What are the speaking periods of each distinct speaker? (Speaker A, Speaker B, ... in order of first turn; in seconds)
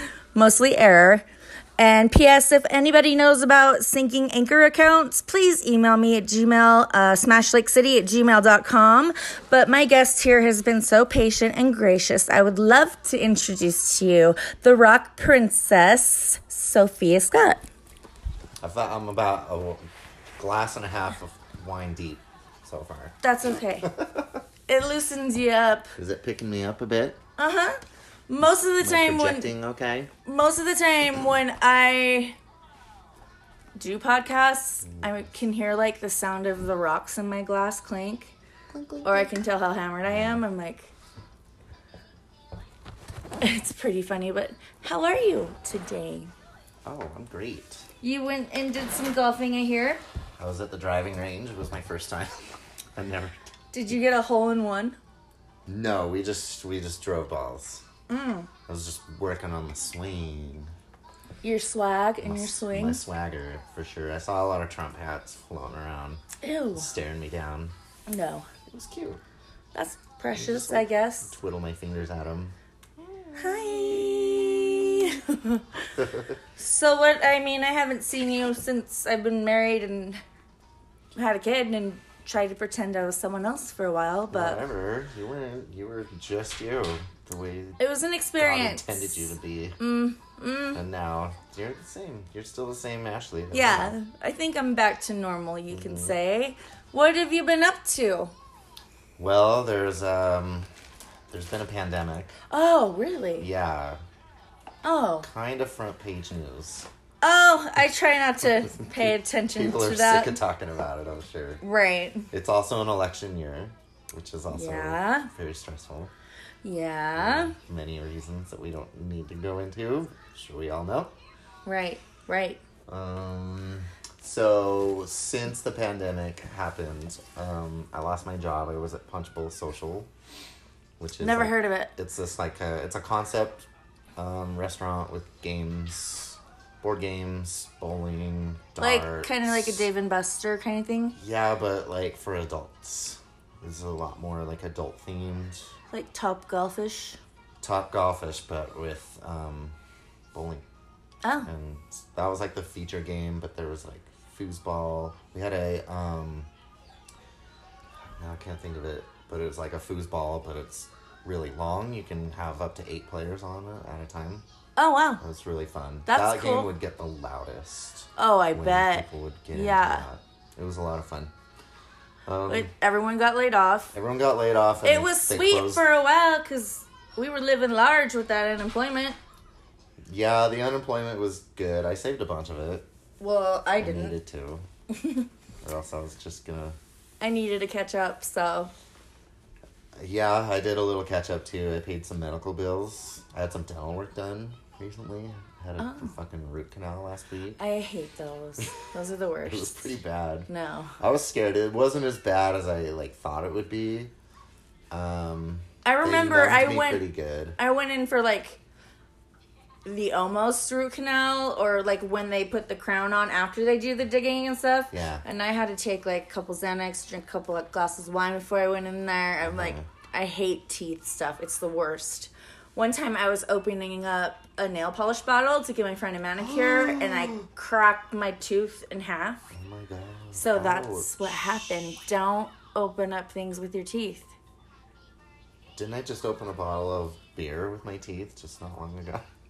Speaker A: 0.3-1.2, 1.8-17.6, 23.2-23.9, 24.7-25.9, 27.4-29.5, 30.3-32.4, 33.8-38.4, 39.0-40.9, 43.4-46.3, 48.0-50.0, 53.7-55.0, 58.1-58.5, 61.4-63.0, 66.4-66.9, 68.1-68.5, 69.7-71.4, 73.4-75.9, 76.6-80.2, 81.2-84.7, 87.8-90.8, 93.5-98.3, 102.5-103.5, 104.8-105.3, 107.2-110.4, 111.6-112.3, 114.5-115.3, 116.6-117.5, 121.7-122.6, 131.2-131.9, 138.8-141.2, 145.9-147.2, 151.2-151.5, 164.8-165.2, 166.1-166.7, 168.2-170.1, 172.5-173.9, 174.8-179.2, 183.2-184.2, 184.9-185.3, 187.2-188.7, 195.8-196.2, 197.6-199.9, 200.5-200.9, 205.8-207.1, 207.6-208.6, 209.8-229.5, 230.3-234.3
Speaker B: 18.6-23.2, 23.8-24.4, 26.0-27.2, 28.8-30.1, 34.9-35.2, 38.7-39.3, 40.1-40.4, 46.9-47.9, 50.4-52.4, 53.0-53.4, 55.7-57.9, 58.7-60.7, 62.2-66.2, 66.8-67.8, 68.7-69.2, 70.3-74.8, 76.0-76.4, 84.3-87.8, 88.4-89.8, 90.7-94.0, 95.7-96.2, 99.2-100.7, 101.3-102.3, 103.4-104.0, 105.2-106.9, 108.7-111.6, 112.3-116.1, 117.2-121.1, 122.9-130.1, 131.0-139.9, 141.2-145.7, 147.6-149.8, 150.3-150.7, 151.4-156.5, 158.2-164.4, 165.2-171.3, 172.3-172.7, 173.9-175.8, 180.1-182.9, 183.8-184.7, 185.6-186.8, 190.0-197.6, 199.4-204.1, 204.9-207.6, 214.9-215.2, 219.4-219.9, 226.4-227.5, 229.5-231.7, 235.8-239.3